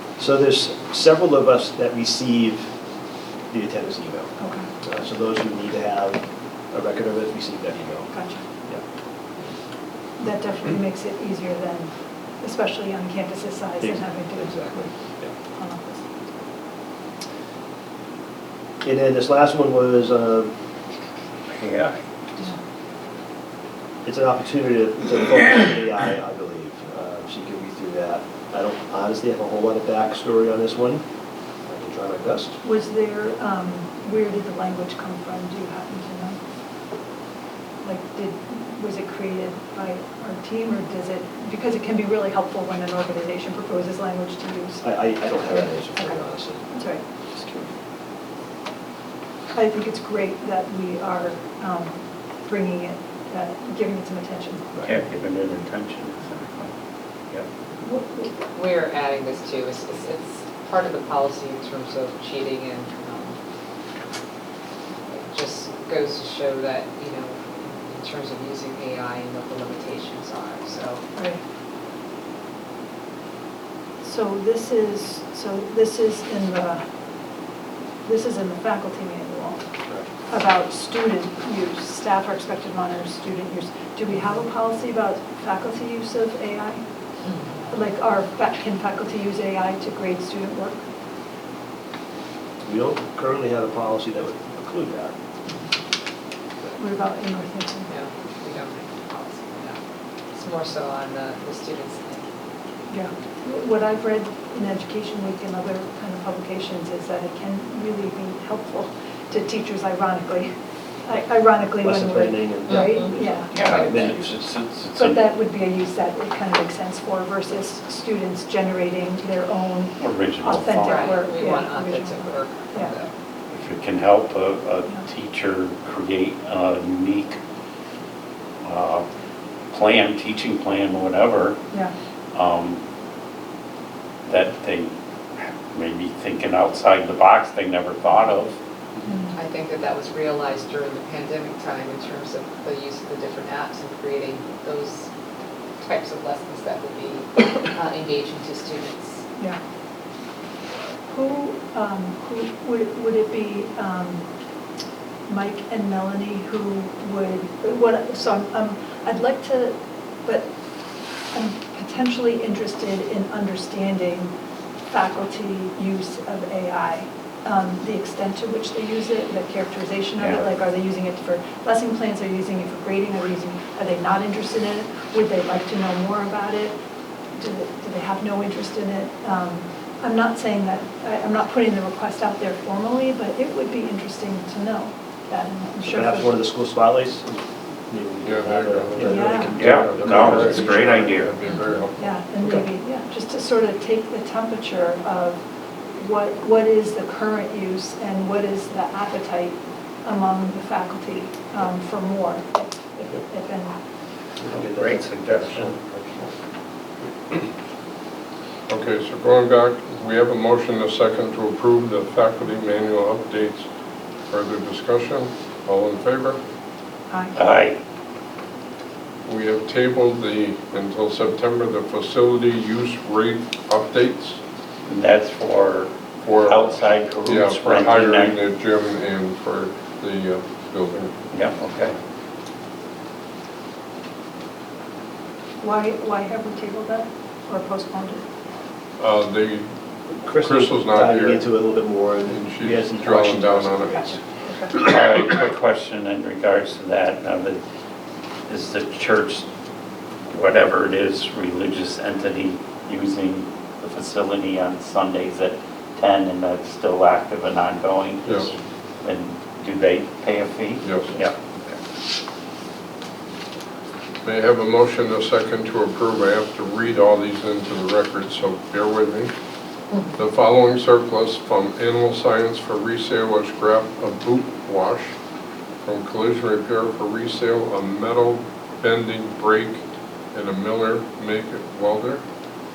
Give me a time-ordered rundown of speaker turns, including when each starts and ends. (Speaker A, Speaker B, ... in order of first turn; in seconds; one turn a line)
Speaker A: 0.2-2.7
Speaker A: 3.5-8.1
Speaker B: 4.4-4.7
Speaker B: 8.1-8.4
Speaker B: 10.2-14.9
Speaker A: 13.8-15.3
Speaker B: 15.5-16.3
Speaker A: 18.8-20.5
Speaker C: 21.5-22.0
Speaker A: 24.1-31.1
Speaker A: 31.7-32.6
Speaker B: 32.6-36.4
Speaker B: 37.8-46.2
Speaker A: 44.8-46.7
Speaker B: 46.7-47.0
Speaker A: 47.4-47.7
Speaker B: 49.5-54.7
Speaker C: 54.8-56.7
Speaker B: 57.8-58.4
Speaker D: 58.5-63.4
Speaker D: 65.1-71.0
Speaker B: 71.2-71.4
Speaker B: 74.0-76.8
Speaker B: 78.0-79.6
Speaker B: 80.3-86.8
Speaker B: 87.7-90.8
Speaker A: 92.7-95.2
Speaker B: 96.8-97.9
Speaker D: 97.9-99.8
Speaker D: 100.3-102.3
Speaker B: 102.9-110.5
Speaker B: 111.0-113.6
Speaker A: 111.8-114.5
Speaker D: 112.7-113.0
Speaker C: 113.5-115.2
Speaker D: 113.7-114.1
Speaker B: 115.0-123.0
Speaker C: 120.0-121.2
Speaker D: 120.8-123.1
Speaker C: 123.5-127.4
Speaker C: 128.6-129.1
Speaker C: 129.7-131.6
Speaker C: 132.3-132.8
Speaker C: 134.3-138.6
Speaker B: 139.1-139.4
Speaker D: 139.3-145.1
Speaker D: 145.8-149.2
Speaker B: 151.1-154.3
Speaker B: 155.3-160.5
Speaker B: 161.3-164.3
Speaker B: 164.9-176.8
Speaker C: 170.2-170.5
Speaker B: 177.4-186.5
Speaker A: 185.8-190.7
Speaker E: 188.2-192.6
Speaker B: 189.0-189.6
Speaker C: 189.6-191.4
Speaker D: 191.4-191.8
Speaker B: 192.0-203.8
Speaker A: 204.4-206.0
Speaker C: 204.5-205.7
Speaker E: 208.7-213.7
Speaker E: 214.3-216.4
Speaker B: 217.1-217.3
Speaker C: 217.3-217.8
Speaker E: 219.3-224.4
Speaker C: 224.9-228.4
Speaker E: 226.2-231.3
Speaker C: 231.3-232.0
Speaker B: 235.6-238.2
Speaker E: 239.0-239.7
Speaker A: 240.2-244.2
Speaker E: 240.3-241.4
Speaker E: 242.3-244.2
Speaker B: 244.0-244.8
Speaker C: 244.7-247.6
Speaker C: 248.5-249.5
Speaker C: 250.3-261.7
Speaker E: 260.8-261.1
Speaker E: 264.2-269.3
Speaker E: 270.2-275.1
Speaker E: 275.8-282.2